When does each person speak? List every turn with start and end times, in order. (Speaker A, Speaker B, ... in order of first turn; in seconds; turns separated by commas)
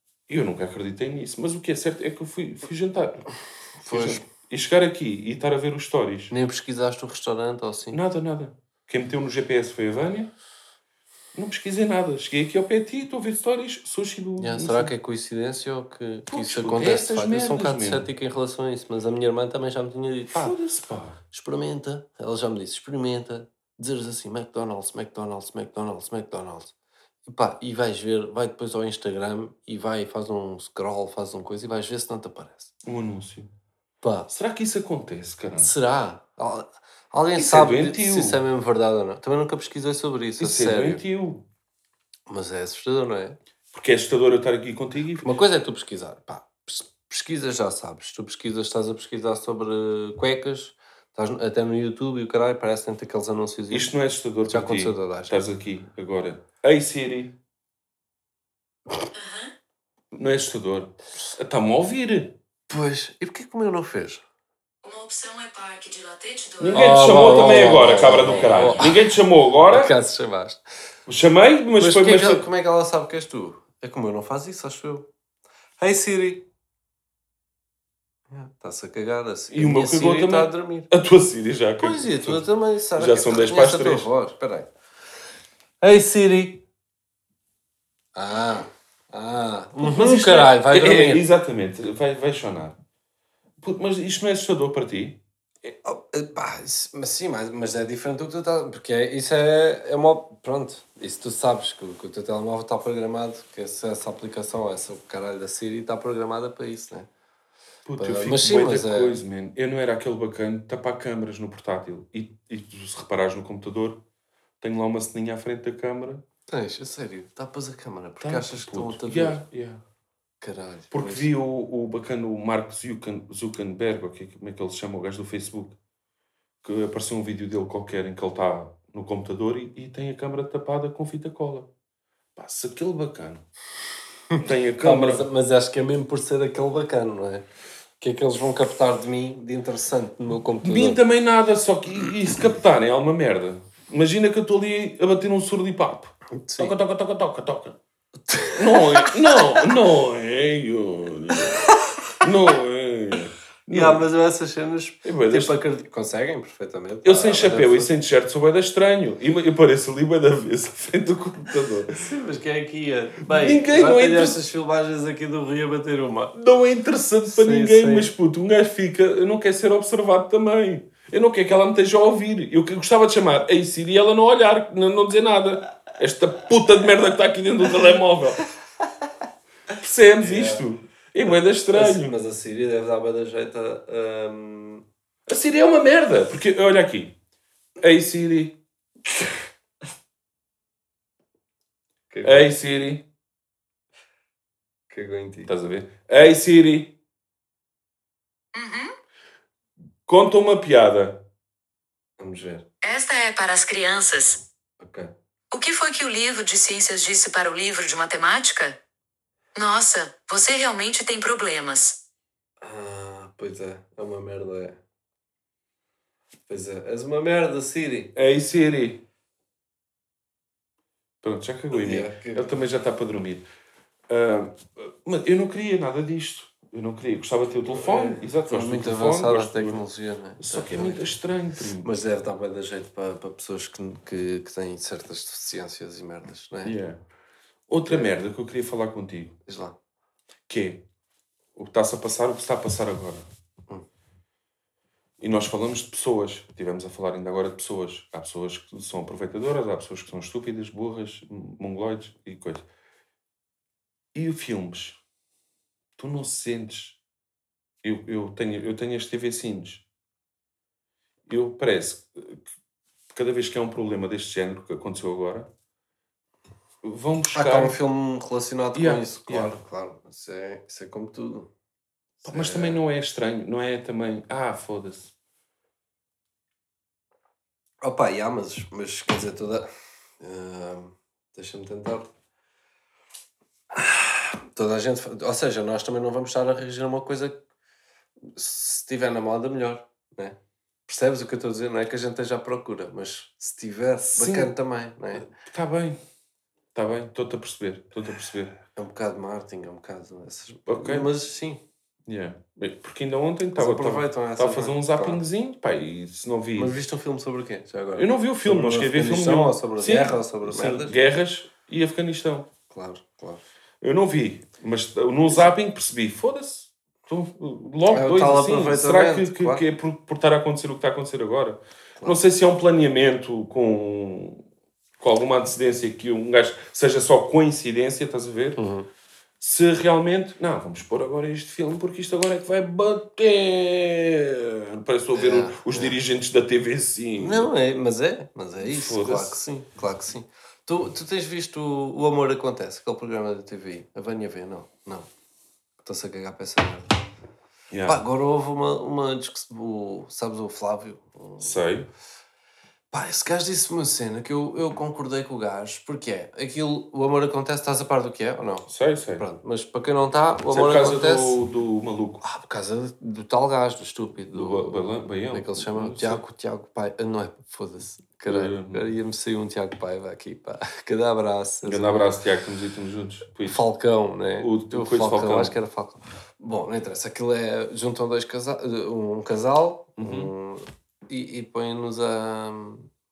Speaker A: 0.3-3.3, Speaker B: 3.8-4.2, Speaker A: 3.9-6.3, Speaker B: 6.3-8.0, Speaker A: 7.9-10.3, Speaker A: 11.3-14.9, Speaker B: 14.4-20.6, Speaker A: 16.3-18.1, Speaker A: 20.3-21.2, Speaker B: 21.3-26.7, Speaker B: 27.3-32.7, Speaker A: 32.8-33.5, Speaker B: 34.0-34.3, Speaker A: 34.3-35.7, Speaker B: 35.6-41.0, Speaker A: 37.4-38.4, Speaker A: 40.4-41.4, Speaker B: 42.3-43.4, Speaker A: 43.7-45.3, Speaker B: 45.2-53.9, Speaker A: 53.7-57.3, Speaker B: 54.5-55.4, Speaker C: 59.1-59.5, Speaker A: 60.1-62.3, Speaker B: 62.7-64.2, Speaker C: 64.8-68.3, Speaker A: 66.6-69.9, Speaker B: 66.7-69.1, Speaker B: 69.7-70.6, Speaker A: 71.1-72.5, Speaker B: 71.8-75.1, Speaker B: 75.8-76.5, Speaker B: 78.3-80.9, Speaker A: 79.5-82.5, Speaker B: 81.8-84.7, Speaker A: 83.0-84.1, Speaker B: 85.8-86.6, Speaker B: 88.2-91.2, Speaker A: 89.8-92.8, Speaker A: 93.6-95.7, Speaker B: 95.8-107.1, Speaker A: 107.9-114.0, Speaker B: 108.0-109.2, Speaker A: 114.6-116.2, Speaker B: 116.5-119.4, Speaker A: 118.2-119.8, Speaker B: 120.4-121.3, Speaker A: 120.9-125.8, Speaker A: 126.6-131.7, Speaker A: 132.4-133.4, Speaker A: 134.3-135.3, Speaker B: 134.8-137.5, Speaker B: 138.0-141.0, Speaker A: 140.6-147.8, Speaker B: 146.3-146.7, Speaker B: 148.3-149.6, Speaker A: 148.6-151.7, Speaker B: 151.4-151.9, Speaker A: 152.2-154.1, Speaker B: 153.7-157.9, Speaker A: 155.0-155.6, Speaker A: 157.1-162.0, Speaker B: 161.9-166.3, Speaker A: 163.3-164.4, Speaker A: 166.3-178.4, Speaker B: 167.3-168.1, Speaker A: 179.8-182.2, Speaker B: 180.2-180.7, Speaker B: 181.2-184.8, Speaker A: 185.3-187.2, Speaker A: 187.8-188.6, Speaker B: 192.1-192.5, Speaker A: 192.2-193.1, Speaker B: 194.9-195.5, Speaker A: 195.5-196.9, Speaker C: 198.6-198.9, Speaker A: 200.1-201.2, Speaker B: 202.2-202.7, Speaker C: 202.8-204.4, Speaker B: 204.8-205.1, Speaker C: 205.5-208.8, Speaker C: 209.6-212.0, Speaker B: 212.6-214.8, Speaker B: 216.5-218.2, Speaker A: 218.2-219.0, Speaker A: 221.2-223.4, Speaker B: 221.7-222.6, Speaker A: 224.1-229.8, Speaker B: 227.7-231.2, Speaker A: 230.4-231.9, Speaker B: 231.8-236.8, Speaker A: 236.6-237.0, Speaker A: 237.7-239.3, Speaker B: 237.9-238.1, Speaker B: 239.5-239.8, Speaker A: 240.5-240.8, Speaker A: 241.6-243.3, Speaker A: 245.2-252.7, Speaker A: 254.1-255.0, Speaker A: 256.0-257.0, Speaker A: 257.8-259.8, Speaker A: 261.3-262.4, Speaker A: 263.1-265.5, Speaker A: 266.8-267.8, Speaker B: 267.3-271.5, Speaker A: 268.8-269.6, Speaker B: 272.2-272.8, Speaker A: 272.2-275.1, Speaker B: 277.8-279.7, Speaker B: 280.2-282.1, Speaker B: 283.7-287.4, Speaker B: 288.3-295.3, Speaker A: 294.1-294.5, Speaker A: 295.1-296.0, Speaker A: 296.8-298.6, Speaker B: 298.8-301.6, Speaker A: 300.7-301.1, Speaker A: 302.1-306.7, Speaker B: 303.6-305.2, Speaker B: 306.6-311.0, Speaker A: 308.0-312.5, Speaker B: 312.7-313.4, Speaker A: 313.8-324.4, Speaker B: 317.9-319.6, Speaker A: 325.0-328.6, Speaker B: 328.6-328.9, Speaker A: 329.4-337.5, Speaker B: 335.1-336.0, Speaker B: 337.2-345.1, Speaker A: 338.6-339.4, Speaker B: 345.8-346.9, Speaker A: 347.7-348.0, Speaker B: 347.9-351.6, Speaker A: 351.4-351.9, Speaker B: 352.9-361.4, Speaker A: 358.7-359.3, Speaker A: 360.5-362.2, Speaker B: 362.2-372.1, Speaker A: 364.3-366.2, Speaker A: 368.3-368.9, Speaker A: 371.6-373.6, Speaker B: 373.5-382.9, Speaker A: 374.4-375.6, Speaker A: 380.0-380.3